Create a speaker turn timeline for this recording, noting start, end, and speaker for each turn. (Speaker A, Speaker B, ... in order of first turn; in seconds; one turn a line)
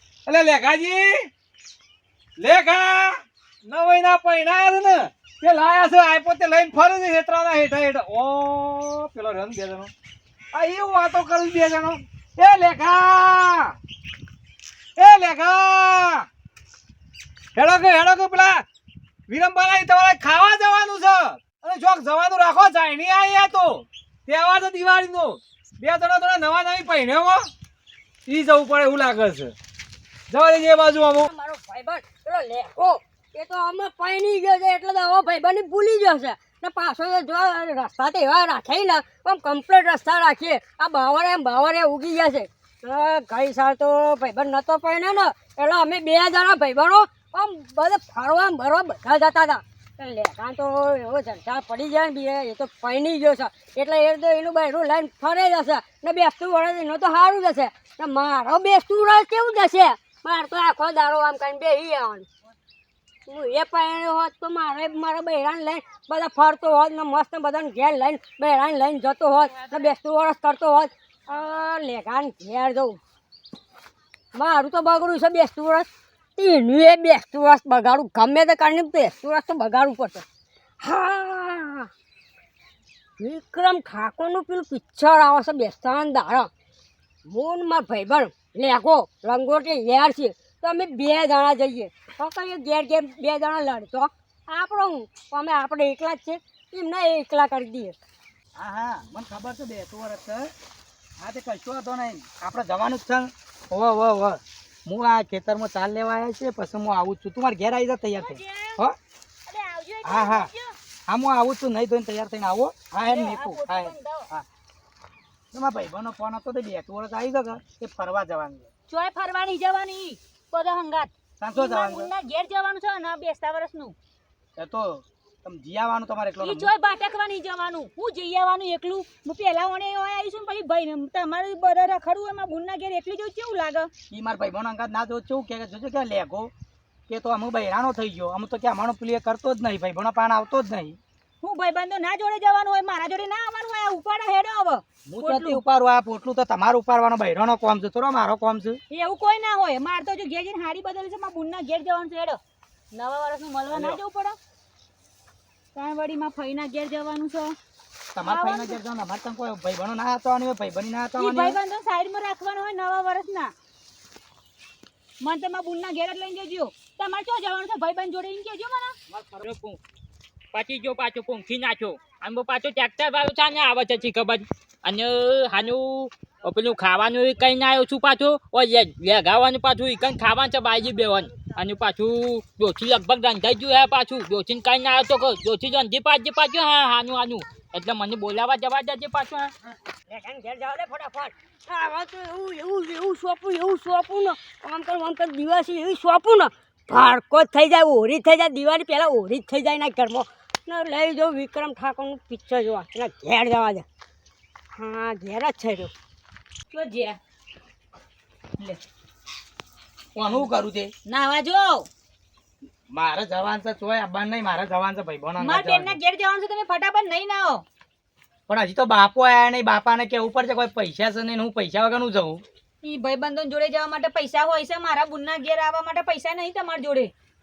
Speaker A: 0.3-1.3
Speaker A: 2.4-9.9
Speaker A: 10.5-13.8
Speaker A: 15.0-16.3
Speaker A: 17.6-18.6
Speaker A: 19.3-27.5
Speaker A: 28.3-29.5
Speaker A: 30.3-31.3
Speaker B: 31.2-62.3
Speaker B: 63.3-73.0
Speaker B: 74.3-80.2
Speaker B: 80.8-81.9
Speaker B: 83.2-86.5
Speaker B: 87.3-98.0
Speaker C: 98.6-100.5
Speaker C: 101.2-109.0
Speaker D: 108.2-108.8
Speaker D: 109.5-110.8
Speaker C: 110.0-110.5
Speaker C: 111.1-114.5
Speaker D: 113.0-114.3
Speaker C: 115.5-118.7
Speaker D: 118.9-124.0
Speaker C: 121.4-122.1
Speaker C: 124.6-126.7
Speaker D: 126.4-133.9
Speaker C: 134.1-136.5
Speaker C: 137.1-141.0
Speaker D: 141.4-145.6
Speaker C: 145.1-148.8
Speaker D: 148.9-152.4
Speaker D: 152.9-154.4
Speaker C: 153.7-154.0
Speaker D: 155.8-157.6
Speaker C: 158.1-161.6
Speaker D: 158.2-158.8
Speaker D: 161.2-163.5
Speaker D: 165.2-169.0
Speaker E: 169.1-169.8
Speaker E: 170.5-189.5
Speaker B: 190.1-203.8
Speaker B: 204.7-205.9
Speaker D: 206.7-207.2
Speaker C: 210.2-210.9
Speaker D: 211.1-211.9
Speaker C: 212.9-216.0
Speaker D: 215.4-217.7
Speaker C: 218.5-222.4
Speaker D: 222.8-227.1